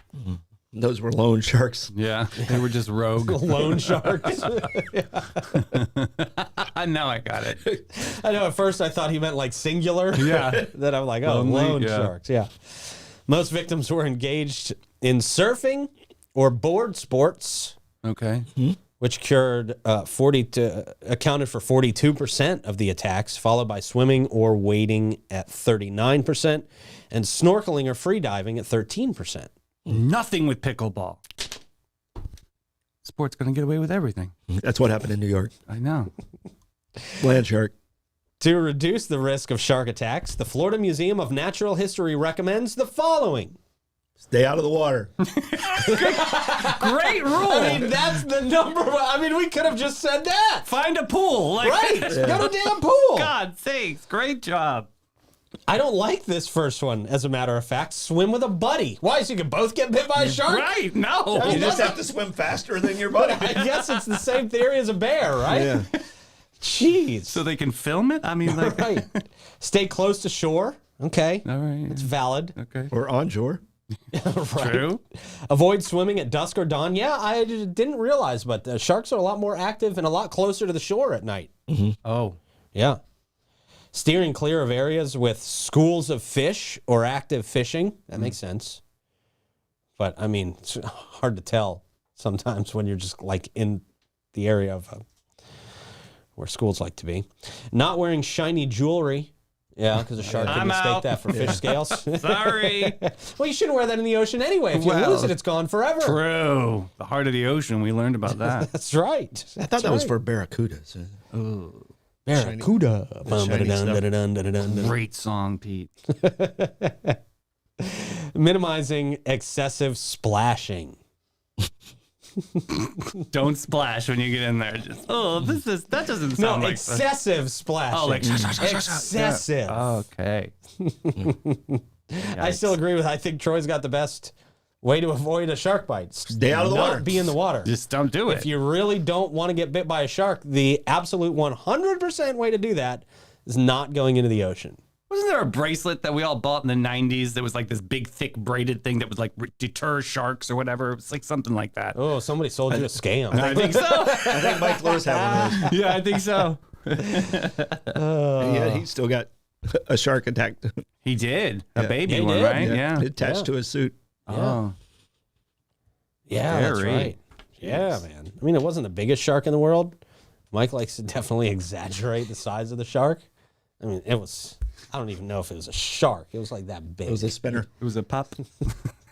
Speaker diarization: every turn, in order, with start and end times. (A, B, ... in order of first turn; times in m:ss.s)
0:00.2-0:01.9 A
0:01.9-0:04.6 B
0:03.2-0:05.8 C
0:05.5-0:07.6 B
0:07.8-0:17.8 C
0:10.1-0:10.7 B
0:11.2-0:12.1 B
0:18.0-0:18.5 B
0:19.0-0:29.5 C
0:29.9-0:31.2 B
0:33.0-0:34.3 B
0:34.5-0:35.5 A
0:35.7-0:36.1 B
0:37.2-0:37.7 A
0:38.4-0:43.6 C
0:44.2-0:45.1 A
0:45.2-0:48.2 B
0:45.8-0:50.7 C
0:50.6-0:54.9 B
0:51.6-0:53.3 C
0:52.1-0:52.5 A
0:55.7-1:00.8 C
1:00.4-1:02.0 B
1:01.3-1:03.6 A
1:01.4-1:02.0 C
1:02.9-1:05.8 C
1:05.5-1:05.9 A
1:06.6-1:07.4 C
1:07.3-1:09.2 B
1:08.4-1:12.6 C
1:11.4-1:12.9 B
1:12.9-1:13.6 A
1:14.1-1:21.5 C
1:14.5-1:15.0 B
1:21.7-1:22.0 A
1:22.0-1:22.4 B
1:22.7-1:23.0 C
1:23.9-1:28.8 C
1:30.0-1:35.0 C
1:36.4-1:46.2 C
1:40.2-1:40.6 A
1:40.4-1:43.0 B
1:41.3-1:41.6 A
1:44.7-1:45.3 B
1:46.0-1:48.7 B
1:48.3-1:50.2 C
1:49.6-1:51.2 A
1:51.3-1:51.9 B
1:52.2-1:55.0 C
1:52.3-1:52.7 A
1:53.2-1:54.0 A
1:54.6-1:55.9 B
1:56.1-1:57.2 C
1:57.8-2:01.0 C
2:02.5-2:03.2 C
2:03.2-2:07.0 B
2:06.3-2:09.9 C
2:07.9-2:10.5 B
2:10.8-2:17.7 C
2:12.3-2:12.8 B
2:16.3-2:17.3 A
2:17.6-2:18.5 B
2:18.3-2:24.8 C
2:25.1-2:32.0 B
2:31.9-2:36.2 C
2:32.7-2:34.6 B
2:34.1-2:35.7 A
2:35.5-2:37.9 B
2:37.9-2:38.8 C
2:38.4-2:40.8 A
2:41.0-2:43.1 B
2:41.8-2:44.0 A
2:42.0-2:43.5 C
2:44.3-2:44.7 B
2:44.3-2:44.6 C
2:46.3-2:50.0 C
2:46.4-2:47.1 B
2:47.6-2:48.0 A
2:50.5-2:53.2 C
2:53.8-2:57.3 C
2:57.0-2:57.7 A
2:57.8-2:58.7 B